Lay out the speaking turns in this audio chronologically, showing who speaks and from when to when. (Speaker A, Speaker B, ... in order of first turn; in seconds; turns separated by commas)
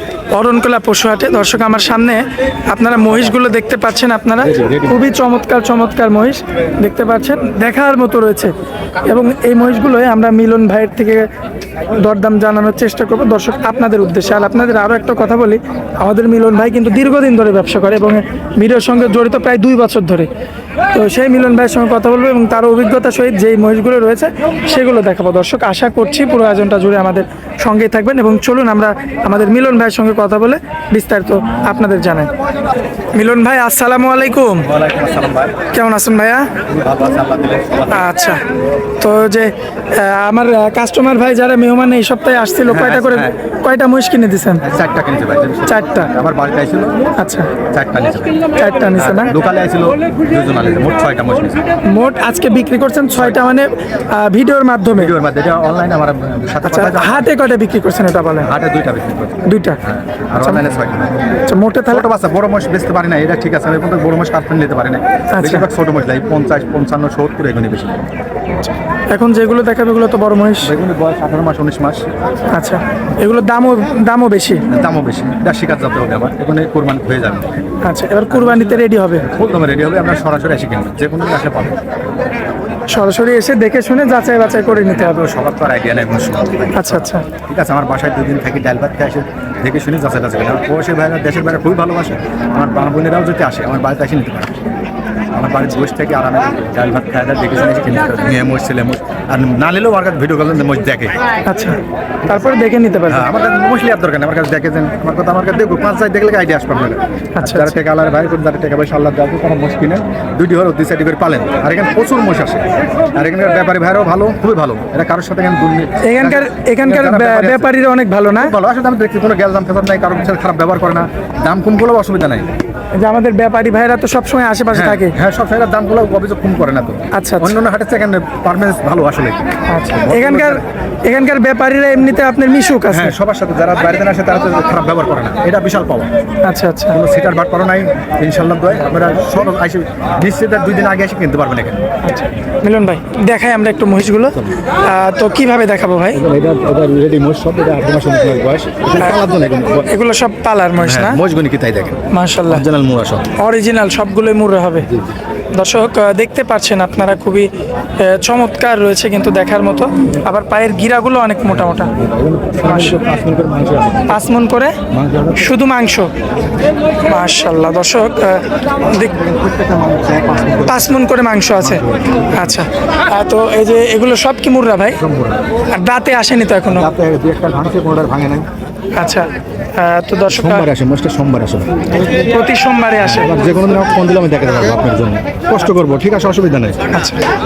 Speaker A: 0.3-11.3, Speaker B: 4.4-5.0, Speaker A: 12.0-20.3, Speaker A: 20.9-32.3, Speaker A: 33.1-34.7, Speaker B: 34.6-35.6, Speaker A: 35.7-36.5, Speaker B: 36.7-38.1, Speaker A: 37.9-38.4, Speaker A: 39.0-44.6, Speaker B: 42.7-43.4, Speaker B: 44.6-47.0, Speaker A: 45.7-46.1, Speaker A: 47.2-47.5, Speaker B: 47.7-51.6, Speaker A: 48.5-49.3, Speaker A: 51.9-55.1, Speaker B: 54.9-57.3, Speaker A: 56.7-58.5, Speaker B: 58.4-61.2, Speaker A: 59.4-59.8, Speaker A: 61.5-62.1, Speaker B: 61.9-68.0, Speaker A: 65.3-65.7, Speaker A: 68.6-70.7, Speaker B: 70.6-72.1, Speaker A: 72.5-74.7, Speaker B: 74.7-77.6, Speaker A: 77.8-79.3, Speaker B: 78.3-81.8, Speaker A: 82.9-85.2, Speaker B: 84.7-94.6, Speaker A: 86.7-87.3, Speaker B: 95.3-101.2, Speaker A: 101.5-103.3, Speaker B: 103.1-117.7, Speaker A: 107.4-107.7, Speaker A: 116.0-118.5, Speaker B: 118.4-122.5, Speaker A: 123.0-125.2, Speaker B: 124.7-130.6, Speaker A: 127.1-127.5, Speaker A: 129.7-133.2, Speaker B: 132.9-136.1, Speaker A: 136.4-137.0, Speaker B: 136.9-141.8, Speaker A: 142.0-146.2, Speaker B: 146.1-149.9, Speaker A: 149.9-151.2, Speaker B: 150.8-153.3, Speaker A: 152.1-152.7, Speaker A: 153.4-154.9, Speaker B: 154.8-155.2, Speaker A: 155.5-157.5, Speaker A: 158.0-161.9, Speaker B: 161.5-164.3, Speaker A: 162.6-163.0, Speaker A: 164.1-164.8, Speaker B: 164.9-165.5, Speaker A: 165.3-166.1, Speaker A: 167.0-169.1, Speaker B: 169.0-171.0, Speaker A: 170.7-175.0, Speaker B: 171.6-172.6, Speaker B: 175.0-175.4, Speaker A: 175.7-176.9, Speaker B: 176.7-178.5, Speaker A: 179.0-180.7, Speaker B: 180.3-181.7, Speaker A: 182.0-183.3, Speaker B: 183.0-186.9, Speaker A: 186.9-187.2